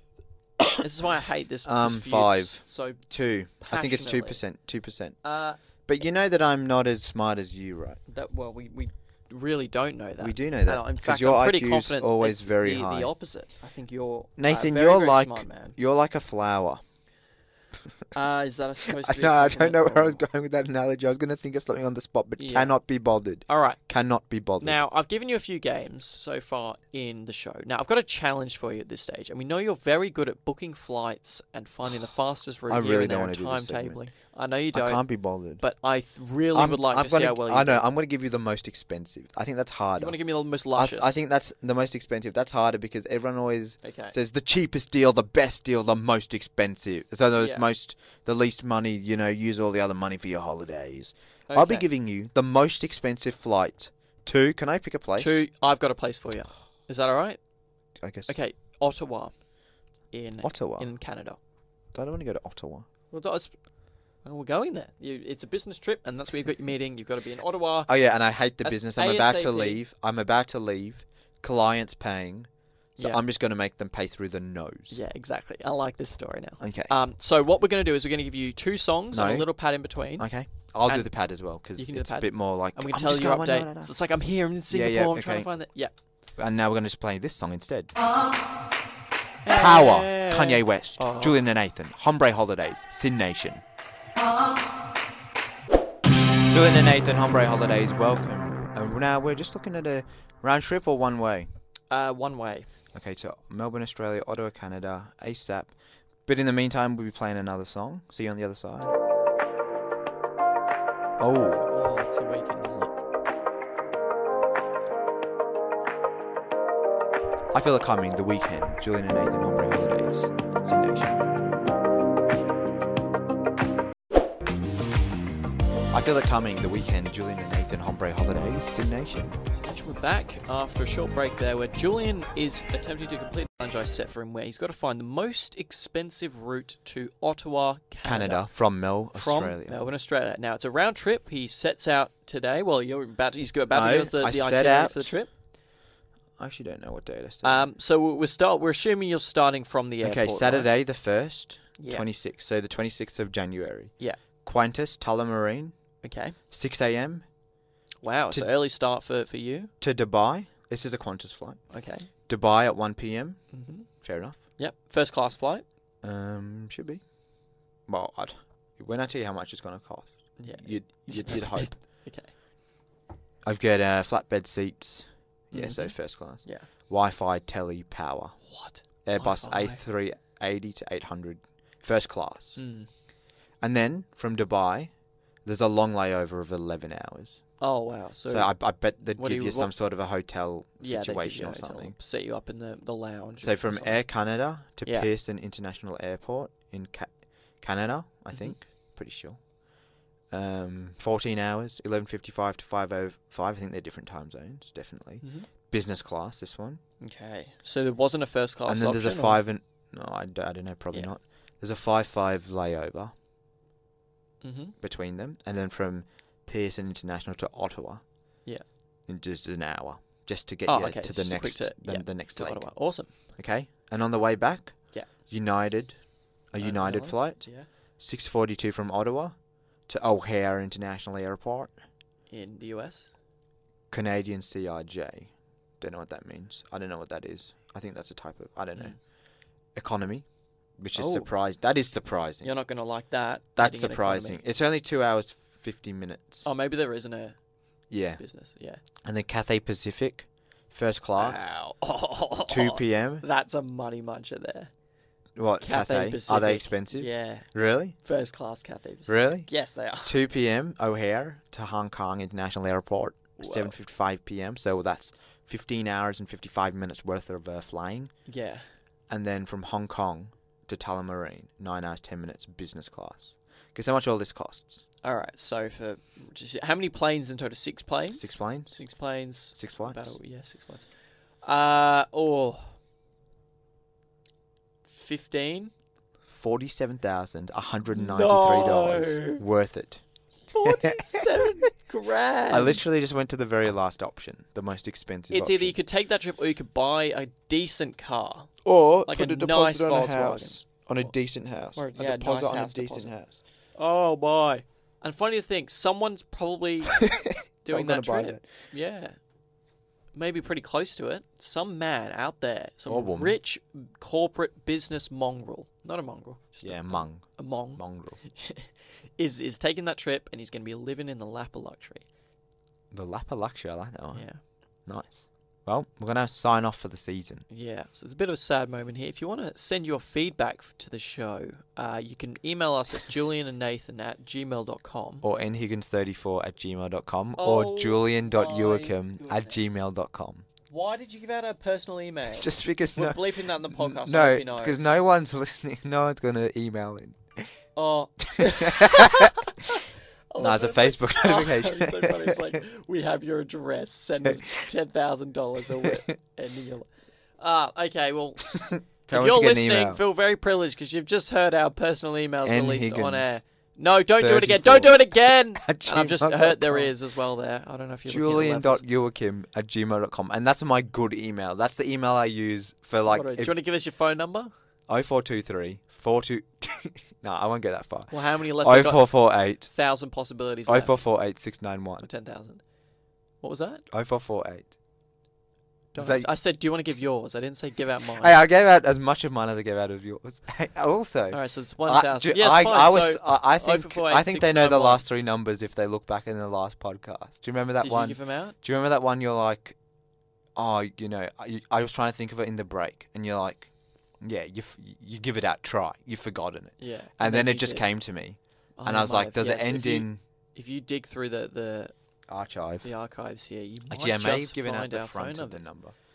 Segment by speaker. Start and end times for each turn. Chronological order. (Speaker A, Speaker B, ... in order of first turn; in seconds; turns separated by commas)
Speaker A: 0.8-3.0, Speaker B: 1.6-5.2, Speaker A: 3.6-4.4, Speaker A: 5.2-5.6, Speaker B: 5.8-8.0, Speaker A: 8.1-15.8, Speaker B: 10.2-13.1, Speaker B: 14.4-16.8, Speaker A: 18.1-20.2, Speaker B: 18.9-24.8, Speaker A: 22.4-22.8, Speaker A: 23.5-23.8, Speaker A: 24.6-35.0, Speaker B: 32.7-34.0, Speaker B: 34.7-35.6, Speaker A: 35.6-37.8, Speaker B: 36.5-40.2, Speaker A: 40.0-41.2, Speaker B: 40.7-55.4, Speaker A: 43.8-44.1, Speaker A: 47.4-47.7, Speaker A: 51.5-51.9, Speaker A: 55.2-57.4, Speaker B: 58.0-58.3, Speaker A: 58.3-59.3, Speaker A: 60.1-61.4, Speaker B: 60.4-60.9, Speaker B: 61.9-62.9, Speaker A: 63.1-63.5, Speaker A: 64.2-67.9, Speaker B: 67.9-75.0, Speaker A: 68.6-69.8, Speaker A: 74.9-80.3, Speaker B: 76.6-76.9, Speaker B: 79.1-79.5, Speaker B: 80.2-83.9, Speaker A: 81.8-85.9, Speaker B: 84.7-85.5, Speaker B: 86.4-87.9, Speaker A: 89.4-91.4, Speaker B: 89.5-93.6, Speaker B: 96.5-101.5, Speaker A: 101.9-102.7, Speaker B: 102.9-105.7, Speaker B: 106.2-108.9, Speaker B: 111.2-111.6, Speaker A: 111.3-112.9, Speaker B: 117.5-121.2, Speaker B: 125.9-129.4, Speaker A: 129.5-138.5, Speaker B: 138.0-139.8, Speaker A: 139.1-145.3, Speaker B: 143.7-145.1, Speaker B: 146.4-147.7, Speaker A: 147.4-150.7, Speaker B: 150.0-155.7, Speaker A: 151.8-152.1, Speaker A: 156.0-156.3, Speaker B: 156.5-157.2, Speaker A: 158.0-159.7, Speaker B: 159.8-161.6, Speaker A: 161.7-162.1, Speaker B: 162.3-163.4, Speaker A: 163.5-163.9, Speaker B: 164.0-164.4, Speaker A: 164.6-165.7, Speaker B: 166.0-167.0, Speaker B: 167.9-171.8, Speaker A: 170.4-172.3, Speaker B: 173.4-178.3, Speaker A: 175.5-176.7, Speaker A: 178.4-179.8, Speaker B: 179.0-182.6, Speaker A: 182.6-182.9, Speaker B: 183.6-184.9, Speaker B: 185.4-187.4, Speaker A: 187.6-188.5, Speaker B: 188.3-191.9, Speaker A: 189.1-189.7, Speaker A: 190.8-194.0, Speaker B: 193.4-199.4, Speaker A: 194.8-195.1, Speaker B: 200.3-206.8, Speaker A: 205.2-205.5, Speaker A: 207.0-209.4, Speaker B: 208.7-213.1, Speaker A: 214.4-214.8, Speaker B: 214.8-218.0, Speaker B: 219.1-222.6, Speaker A: 220.7-223.1, Speaker B: 223.3-224.8, Speaker B: 225.3-226.0, Speaker B: 226.5-227.4, Speaker A: 226.6-227.7, Speaker B: 228.0-229.3, Speaker B: 229.9-231.8, Speaker A: 232.3-233.1, Speaker B: 233.9-238.9, Speaker B: 239.7-240.2, Speaker B: 240.8-242.5, Speaker A: 240.9-241.3, Speaker A: 242.4-244.4, Speaker B: 243.6-246.4, Speaker A: 246.4-247.3, Speaker B: 247.9-248.2, Speaker A: 248.2-248.8, Speaker B: 249.0-251.6, Speaker A: 251.2-254.7, Speaker B: 252.5-253.2, Speaker B: 255.4-257.9, Speaker A: 255.6-257.5, Speaker A: 258.0-260.1, Speaker B: 259.1-259.5, Speaker B: 260.0-268.1, Speaker A: 263.4-263.7, Speaker A: 268.3-268.6, Speaker B: 269.1-274.8, Speaker A: 275.0-280.9, Speaker B: 278.1-278.8, Speaker B: 279.5-280.1, Speaker A: 281.4-282.7, Speaker A: 284.9-285.7, Speaker B: 286.3-290.0, Speaker A: 287.9-289.4, Speaker A: 290.5-292.8, Speaker B: 290.6-291.2, Speaker B: 292.5-295.7, Speaker A: 295.3-301.1, Speaker B: 298.6-303.4, Speaker A: 301.7-303.1, Speaker A: 303.8-307.0, Speaker B: 307.0-308.5, Speaker A: 307.7-309.1, Speaker A: 310.1-322.0, Speaker B: 312.9-313.4, Speaker B: 316.6-318.2, Speaker B: 322.9-324.2, Speaker A: 324.1-324.4, Speaker B: 324.9-327.4, Speaker A: 327.5-335.2, Speaker B: 335.2-340.4, Speaker A: 337.4-339.8, Speaker A: 340.7-344.8, Speaker B: 342.4-347.5, Speaker A: 347.8-358.5, Speaker B: 348.2-349.4, Speaker B: 350.4-352.6, Speaker B: 358.5-360.0, Speaker A: 359.1-368.8, Speaker B: 362.4-363.3, Speaker B: 364.2-366.9, Speaker B: 368.1-373.5, Speaker A: 373.1-374.5, Speaker B: 374.9-379.7, Speaker A: 378.1-379.1, Speaker A: 379.7-381.0, Speaker B: 380.7-382.1, Speaker A: 382.0-382.6, Speaker A: 383.4-383.8, Speaker B: 383.9-384.7, Speaker A: 385.9-388.4, Speaker B: 385.9-386.3, Speaker B: 388.2-399.8, Speaker A: 391.3-395.0, Speaker A: 397.8-398.6, Speaker B: 400.6-403.7, Speaker B: 404.2-410.2, Speaker A: 406.8-407.9, Speaker A: 408.8-411.9, Speaker B: 412.3-412.9, Speaker A: 412.8-415.6, Speaker B: 413.9-415.9